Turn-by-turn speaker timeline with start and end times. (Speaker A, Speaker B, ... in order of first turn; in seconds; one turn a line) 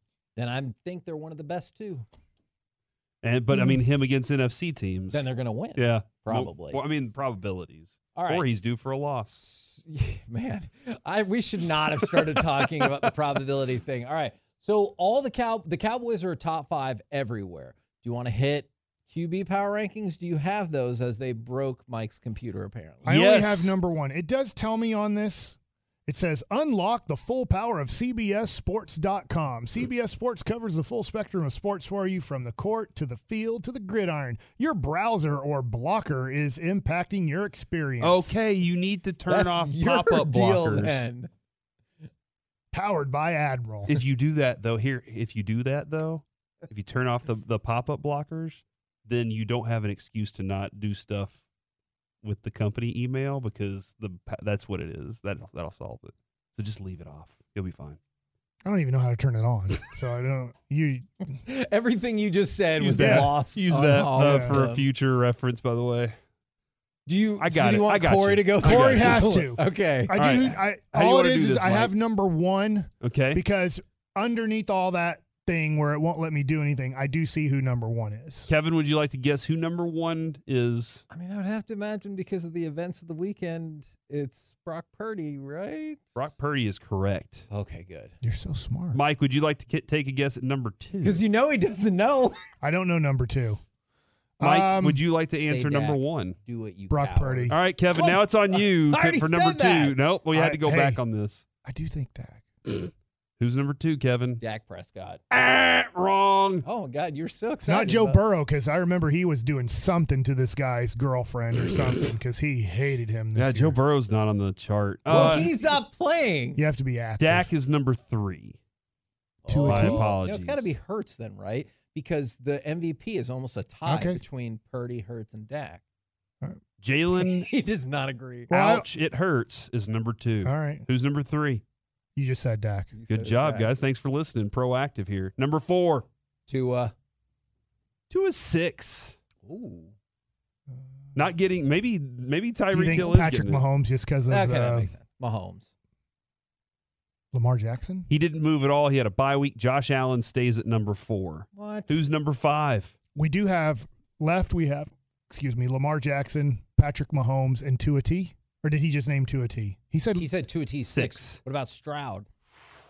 Speaker A: 0.3-2.0
Speaker B: 3.2-9.4
Speaker A: 5.1-6.8
Speaker A: 8.1-8.6
Speaker A: 9.4-23.1
Speaker B: 23.0-23.7
Speaker C: 23.0-38.4
Speaker B: 38.0-41.1
Speaker A: 39.3-41.3
Speaker C: 42.7-44.0
Speaker B: 43.9-51.4
Speaker B: 52.2-58.0
Speaker C: 58.6-61.2
Speaker A: 61.5-64.9
Speaker C: 62.8-63.3
Speaker B: 62.9-66.2
Speaker C: 64.2-64.6
Speaker A: 67.0-70.2
Speaker B: 67.4-69.3
Speaker C: 68.6-78.5
Speaker B: 70.1-71.9
Speaker B: 73.0-73.4
Speaker B: 78.5-81.0
Speaker A: 81.1-86.0
Speaker B: 86.1-87.5
Speaker A: 87.5-88.1
Speaker C: 88.2-89.0
Speaker B: 88.9-91.2
Speaker A: 91.0-92.5
Speaker C: 92.6-93.6
Speaker C: 94.4-95.0
Speaker B: 94.4-96.4
Speaker A: 95.4-100.0
Speaker C: 96.9-97.6
Speaker B: 97.5-101.5
Speaker C: 100.3-101.0
Speaker C: 101.6-102.4
Speaker B: 102.7-104.4
Speaker A: 104.4-105.2
Speaker B: 105.3-106.6
Speaker A: 106.6-108.2
Speaker C: 107.6-113.8
Speaker B: 113.3-115.5
Speaker A: 115.1-116.6
Speaker C: 115.1-115.5
Speaker C: 116.5-117.5
Speaker B: 117.2-118.6
Speaker A: 119.4-125.8
Speaker C: 119.5-120.1
Speaker B: 119.6-120.7
Speaker C: 123.8-124.2
Speaker B: 126.8-127.5
Speaker A: 127.2-128.5
Speaker C: 128.5-128.8
Speaker B: 128.5-131.6
Speaker C: 130.4-130.8
Speaker C: 132.2-132.9
Speaker A: 132.9-133.7
Speaker B: 133.1-136.1
Speaker A: 136.5-136.9
Speaker B: 138.1-139.2
Speaker A: 139.4-139.9
Speaker B: 141.1-143.6
Speaker C: 142.7-144.9
Speaker A: 144.3-145.7
Speaker C: 147.3-148.1
Speaker B: 148.1-152.9
Speaker A: 151.5-152.0
Speaker C: 153.1-160.3
Speaker A: 160.1-162.3
Speaker B: 160.8-161.4